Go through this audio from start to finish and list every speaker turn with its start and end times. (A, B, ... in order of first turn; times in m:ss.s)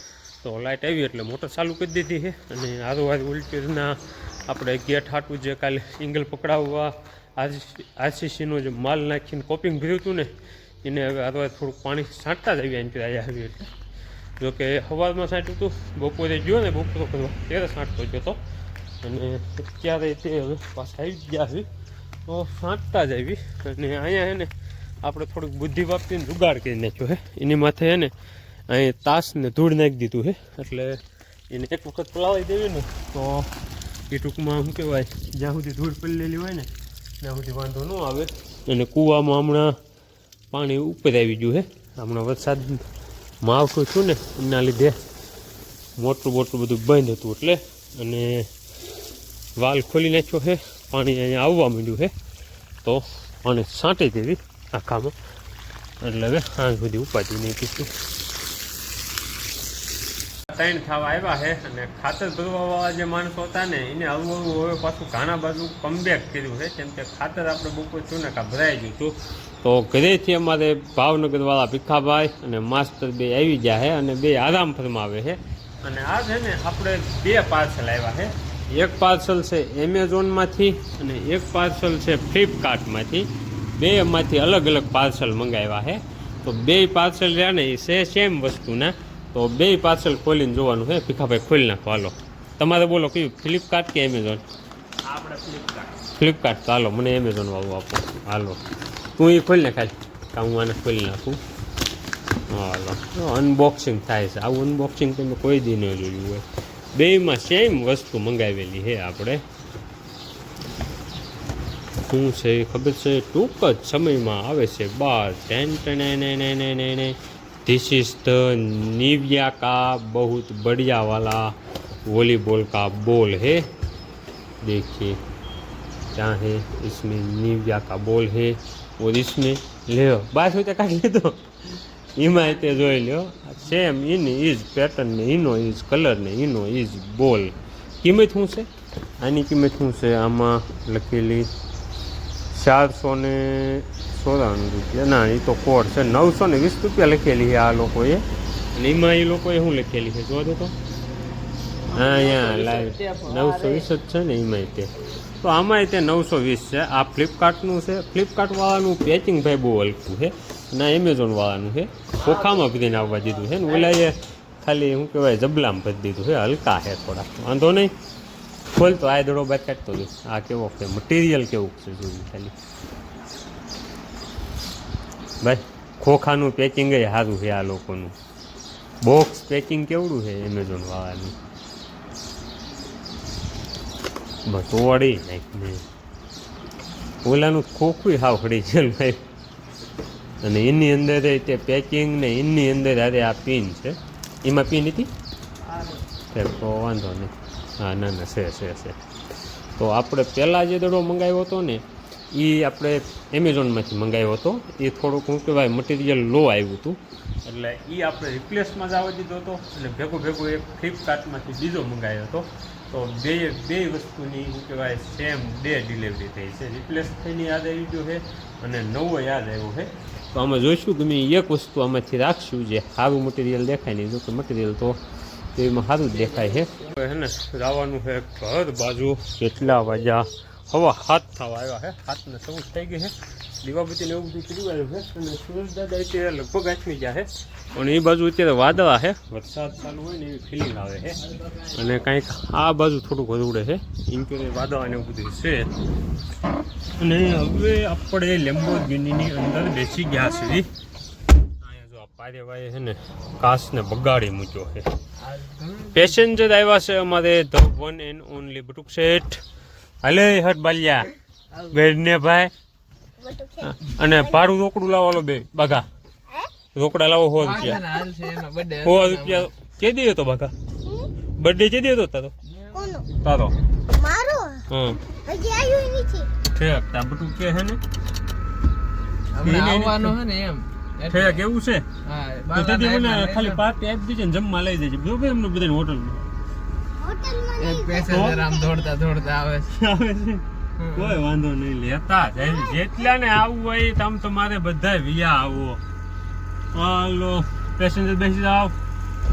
0:00.4-0:10.3 A
0:10.8-0:13.7 A
0:14.4-0:18.4 A
0:19.0-0:21.7 A
0:22.2-0:24.5 A
0:25.0-0:28.1 A
0:28.7-0:33.5 A
0:34.1-0:36.7 A
0:37.2-0:39.8 A
0:40.5-0:42.8 A
0:43.4-0:45.0 A
0:46.0-0:48.5 A
0:49.6-0:52.1 A
0:52.8-0:55.1 A
0:56.0-0:57.9 A
1:00.5-1:34.4 A
1:35.1-1:38.6 A
1:39.2-1:41.4 A
1:42.5-1:49.4 A
1:52.0-2:01.5 A
2:02.0-2:03.6 A
2:04.6-2:05.2 A
2:06.1-2:21.5 A
2:22.5-2:30.7 A
2:31.9-2:47.9 A
2:31.9-2:33.8 B
2:48.7-2:52.5 A
2:55.4-2:58.2 A
2:59.0-3:01.4 A
3:04.4-3:05.8 A
3:07.2-3:09.2 A
3:10.4-3:15.1 A
3:16.3-3:19.0 A
3:19.8-3:45.0 A
3:45.5-4:05.7 A
4:07.0-4:10.7 A
4:11.6-4:14.9 A
4:15.2-4:16.1 B
4:15.9-4:19.4 A
4:20.0-4:22.5 A
4:23.2-4:23.7 C
4:23.6-4:25.9 A
4:26.7-4:27.8 A
4:27.4-4:29.4 B
4:28.8-4:30.5 A
4:31.4-4:32.3 A
4:32.7-4:33.0 C
4:33.1-4:33.5 A
4:33.9-4:34.6 C
4:34.7-4:35.0 A
4:35.2-4:36.3 C
4:36.4-4:37.8 A
4:39.3-4:41.4 B
4:39.4-4:40.2 A
4:41.0-4:41.9 A
4:42.0-4:43.6 B
4:42.5-4:46.2 A
4:47.0-4:48.8 C
4:47.6-4:49.7 B
4:48.0-4:48.4 A
4:49.7-4:55.8 A
4:50.8-4:51.2 B
4:56.7-4:58.7 A